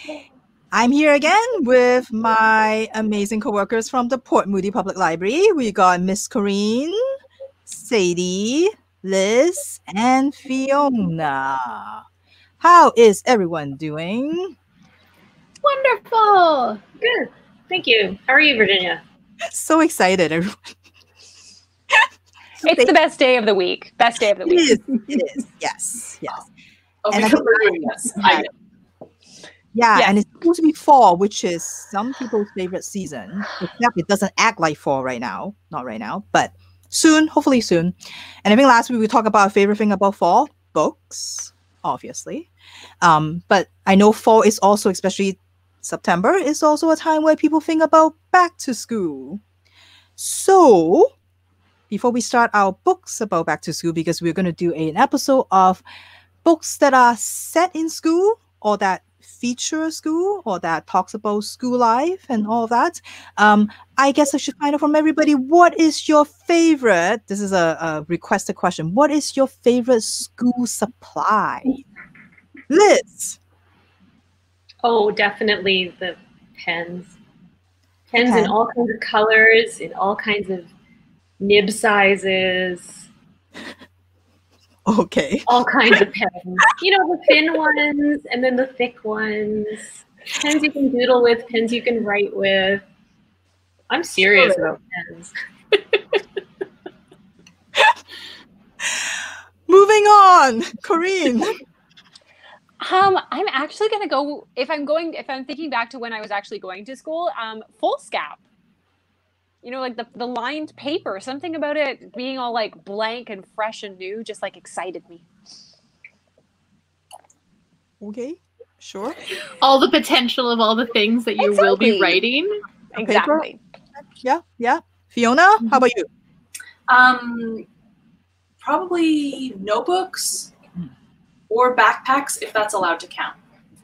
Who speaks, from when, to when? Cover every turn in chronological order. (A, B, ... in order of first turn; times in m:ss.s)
0:00.7-0:07.0 A
0:07.7-0:12.0 A
0:12.6-0:14.6 A
0:15.6-0:16.8 B
0:17.0-0:19.0 C
0:19.5-0:20.7 A
0:22.6-0:22.9 A
0:22.6-0:24.8 D
0:24.4-0:26.4 A
0:27.0-0:28.5 E
0:27.1-0:28.5 A
0:29.7-0:42.5 A
0:43.0-0:49.4 A
0:50.2-0:51.1 A
0:51.9-0:55.8 A
0:56.4-1:11.8 A
1:12.7-1:13.4 A
1:14.8-1:17.1 C
1:18.1-1:20.7 C
1:18.2-1:18.5 A
1:21.4-1:23.0 C
1:24.8-1:26.0 A
1:25.5-1:32.8 C
1:33.9-1:35.3 C
1:39.7-1:41.6 A
1:42.8-1:48.4 D
1:49.6-1:55.2 D
1:58.0-1:59.2 A
1:59.6-2:02.6 B
2:01.4-2:02.2 D
2:02.9-2:03.6 D
2:03.0-2:03.4 A
2:04.2-2:06.1 A
2:06.9-2:07.6 E
2:08.6-2:10.5 E
2:11.5-2:13.4 E